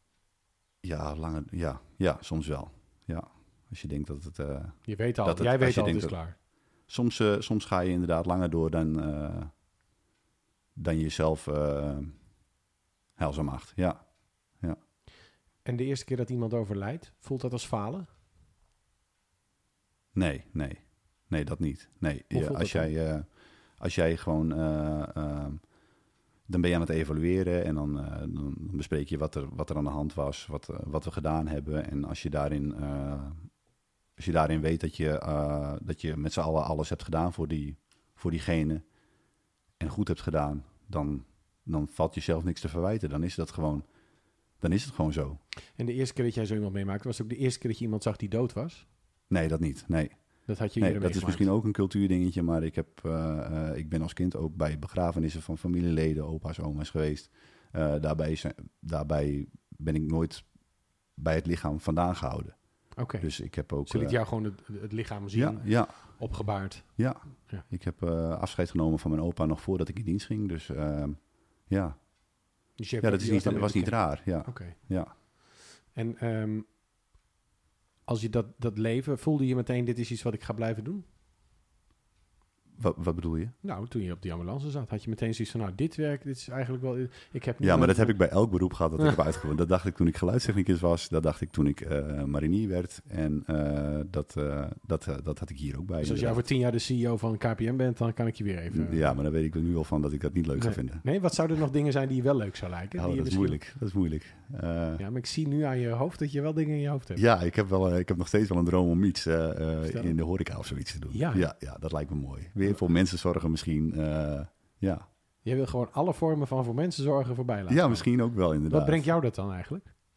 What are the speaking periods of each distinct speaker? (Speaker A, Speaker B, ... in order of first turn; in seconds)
Speaker A: 0.8-6.1, 6.9-9.5, 10.8-12.1, 13.2-14.0, 20.1-23.3, 23.8-25.6, 26.5-33.5, 34.2-38.8, 39.8-43.9, 44.6-45.4, 49.3-50.1, 50.8-60.5, 61.1-62.5, 63.2-64.2, 65.3-66.3, 67.0-72.0, 73.0-75.1, 82.8-83.5, 87.6-96.4, 98.7-101.0, 103.0-105.0, 107.2-115.0, 117.7-119.0
Speaker B: 4.9-6.3, 15.6-18.1, 22.3-22.9, 45.8-48.9, 50.5-51.5, 63.0-67.6, 72.8-74.8, 75.9-76.7, 78.1-81.0, 83.6-88.2, 96.0-99.1, 100.5-103.6, 105.0-107.2, 109.8-110.1, 111.1-111.5, 115.4-118.1, 118.7-119.9